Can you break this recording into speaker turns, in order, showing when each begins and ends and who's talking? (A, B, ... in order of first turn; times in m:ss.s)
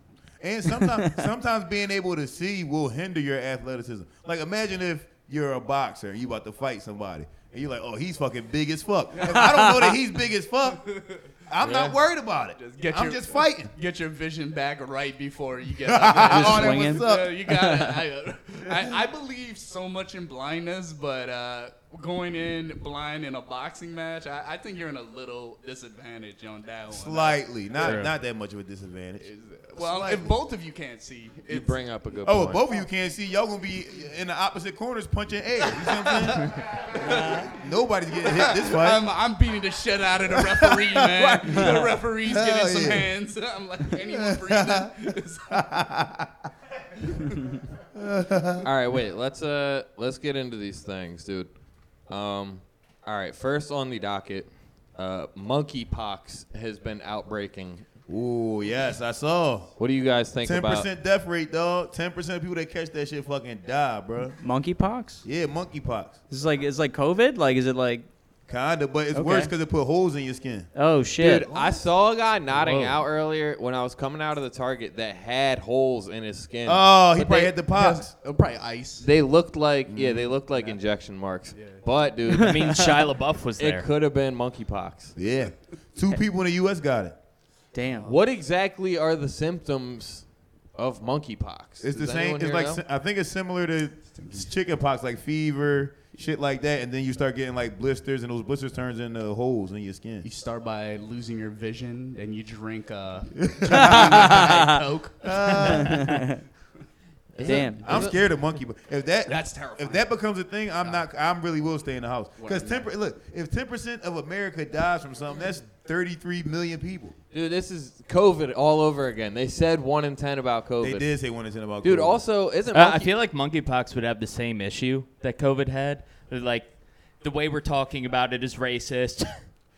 0:00.4-0:10.8 A
0:09.2-0:09.6 B
0:09.3-0:09.8 C
0:10.9-0:11.8 B
0:11.5-0:13.7 A
0:12.6-0:28.0 B
0:15.8-0:17.4 A
0:16.3-0:18.0 C
0:26.9-0:30.3 A
0:27.8-0:28.1 D
0:29.2-0:31.8 B
0:31.5-0:32.7 E
0:32.2-0:39.1 A
0:36.0-0:37.5 B
0:38.2-0:45.6 B
0:40.3-0:43.1 A
0:44.0-0:46.3 A
0:47.9-0:48.7 A
0:48.6-0:51.5 E
0:52.1-0:57.8 E
0:58.1-0:59.7 A
0:59.8-1:00.9 E
1:00.4-1:04.4 A
1:04.4-1:05.2 C
1:05.2-1:06.2 A
1:06.3-1:08.1 C
1:08.5-1:10.7 A
1:09.1-1:09.5 C
1:10.7-1:11.4 C
1:11.2-1:17.5 E
1:12.6-1:13.0 D
1:16.6-1:18.1 A
1:17.7-1:19.1 B
1:19.0-1:23.0 E
1:19.9-1:20.4 A
1:21.5-1:21.8 B
1:22.4-1:23.9 D
1:23.6-1:25.2 E
1:25.2-1:27.2 A
1:27.7-1:28.2 C
1:28.0-1:32.8 E
1:31.8-1:40.3 A
1:34.2-1:34.4 B
1:40.2-1:45.8 B
1:43.4-1:44.7 A
1:45.2-1:46.1 A
1:45.7-1:46.4 C
1:47.3-1:48.2 E
1:47.4-1:57.1 A
1:47.4-1:47.8 C
1:49.2-1:50.1 B
1:50.8-1:51.0 B
1:52.4-1:52.8 B
1:57.3-2:01.1 E
2:00.8-2:02.2 A
2:01.8-2:03.1 E
2:02.7-2:09.4 D